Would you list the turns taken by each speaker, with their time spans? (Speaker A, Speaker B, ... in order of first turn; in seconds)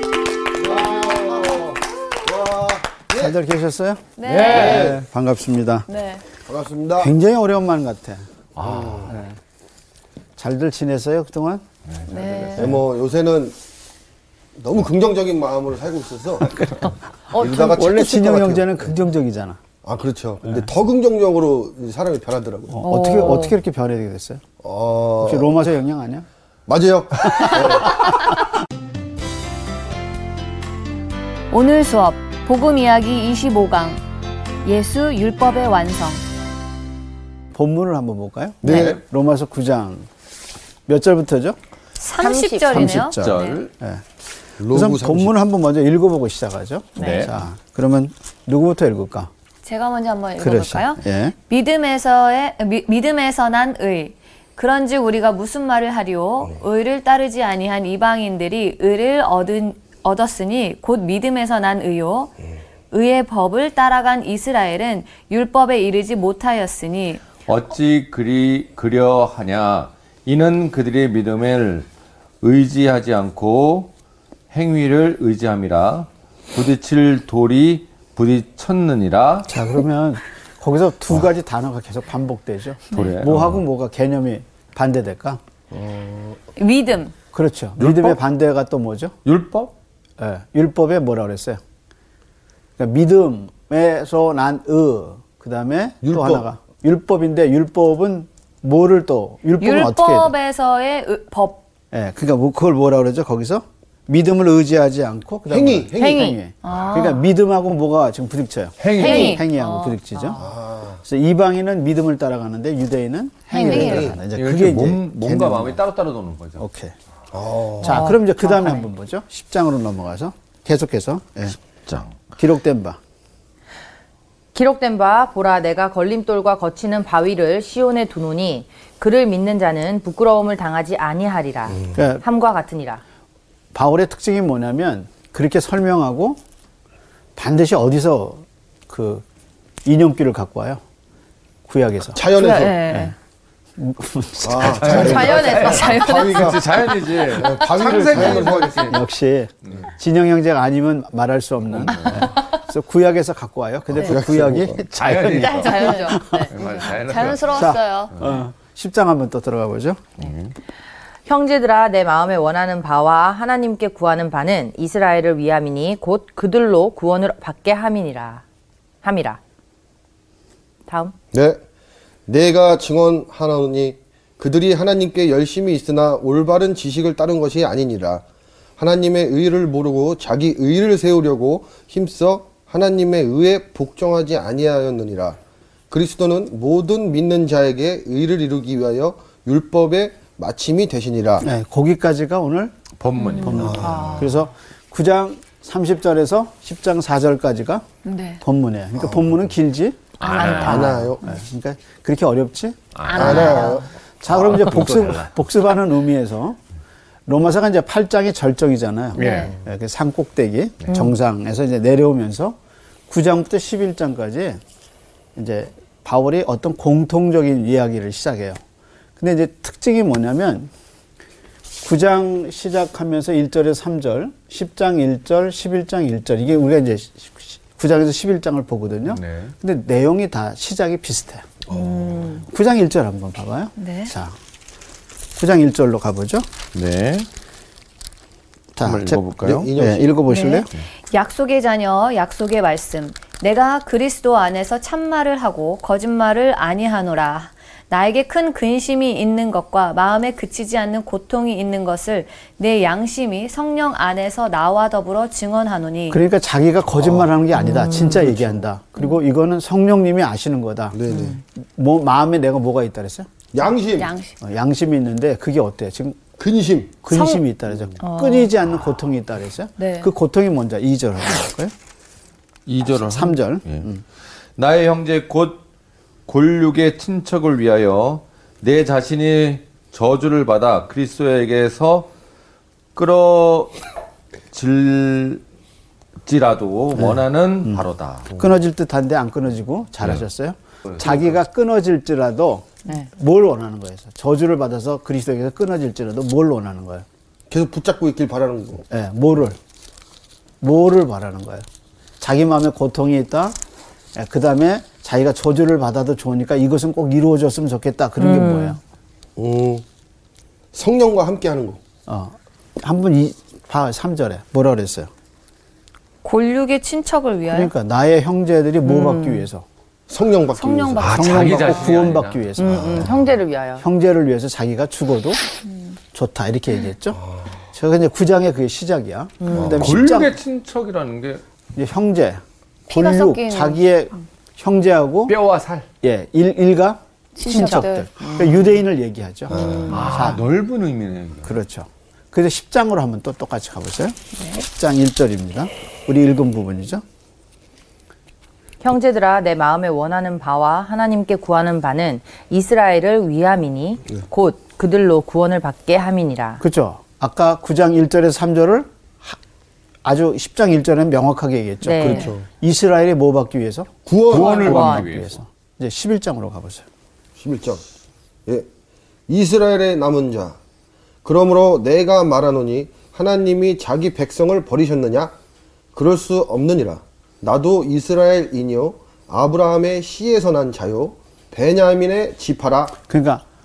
Speaker A: 0.6-3.3, 4.5-5.0, 6.5-7.1, 8.6-9.1, 12.6-13.6, 14.6-16.8, 17.3-18.8, 19.8-22.8, 24.6-25.5, 26.7-28.2, 38.6-39.0, 44.6-45.3, 85.7-86.4, 96.0-96.4, 105.5-106.3, 110.4-111.0, 113.8-114.2, 117.3-118.1, 142.1-142.8, 144.4-149.0, 153.9-154.8, 171.3-171.6, 172.3-178.2, 178.8-185.4, 185.9-191.5, 193.6-194.3, 200.3-201.2, 203.1-203.9, 231.7-232.2, 239.4-240.1, 257.0-257.3, 258.1-258.6, 260.9-261.4, 263.5-264.1, 266.4-267.0, 297.5-298.8, 309.4-309.8, 310.7-311.8, 320.1-322.0, 329.5-329.8, 339.5-340.0, 362.1-362.4, 364.1-365.0, 367.4-367.8, 369.3-370.6, 371.2-375.3, 375.9-382.9
Speaker B: 3.1-5.9, 7.0-8.2, 9.0-9.4, 10.4-11.6, 12.6-12.8, 16.6-16.9, 17.5-19.6, 22.7-24.4, 25.2-26.2, 27.3-28.1, 37.5-40.1, 40.9-41.6, 42.7-44.0, 44.7-49.3, 50.4-51.3, 79.5-85.4, 87.3-89.2, 90.2-91.6, 92.8-100.3, 101.9-110.4, 111.0-115.8, 116.6-116.9, 117.8-121.6, 122.4-123.0, 131.9-132.2, 133.7-136.4, 137.3-139.2, 139.8-140.8, 141.7-143.1, 143.8-145.3, 148.8-156.4, 157.5-160.1, 191.4-192.8, 193.4-197.8, 198.4-206.6, 207.3-214.6, 215.3-218.6, 219.2-220.7, 221.8-231.6, 232.3-234.3, 235.4-236.5, 238.8-240.7, 256.1-261.0, 261.6-263.3, 264.4-266.2, 267.0-271.7, 272.8-274.0, 286.9-287.8, 288.4-297.1, 298.9-299.6, 300.6-301.6, 302.2-303.6, 304.1-308.8, 312.1-315.1, 317.5-319.6, 321.0-323.1, 323.8-325.4, 326.1-327.2, 327.7-330.3, 331.8-335.3, 336.0-340.5, 341.4-347.0, 356.6-359.4, 360.0-366.8, 383.1-383.4
Speaker C: 4.2-4.9, 5.9-6.2, 12.1-12.7, 31.5-34.0, 34.6-36.2, 42.0-43.6, 49.6-62.3, 62.9-67.2, 86.5-87.1, 99.6-101.6, 106.6-107.2, 108.9-110.0, 113.5-114.1, 142.3-143.1, 145.7-146.5, 155.4-158.1, 193.2-193.6, 198.0-198.4, 200.2-201.0, 203.1-203.8, 209.2-209.5, 233.8-234.1, 240.3-256.2, 263.9-264.4, 268.0-268.5, 269.8-270.1, 316.2-317.7, 320.6-321.7, 332.9-333.8, 337.4-338.1
Speaker D: 4.2-5.0, 8.6-9.1, 11.9-12.7, 38.6-39.0, 43.0-43.7, 47.0-47.3, 67.5-71.9, 72.4-73.9, 74.5-79.5, 82.9-83.6, 87.8-88.2, 89.2-89.7, 108.8-109.4, 114.3-116.6, 121.9-122.2, 144.8-149.0, 151.8-152.3, 154.8-158.3, 160.2-160.5, 192.9-194.3, 200.2-201.1, 202.9-203.8, 204.3-205.3, 209.2-209.5, 229.1-229.5, 236.7-237.3, 238.8-239.7, 272.6-273.9, 274.6-275.6, 276.3-282.1, 282.9-283.8, 284.5-285.4, 286.2-288.3, 321.0-322.4, 329.5-331.4, 335.3-335.9, 339.9-341.5, 364.3-365.4
Speaker E: 17.3-18.1, 22.8-23.6, 42.2-42.9, 106.0-106.3, 117.8-118.9, 124.5-133.0, 144.9-146.0, 161.2-168.4, 169.0-169.4, 170.9-171.1, 257.7-258.2, 308.2-308.8, 318.9-319.4, 322.6-323.8, 348.8-356.6, 361.8-362.3, 364.3-365.1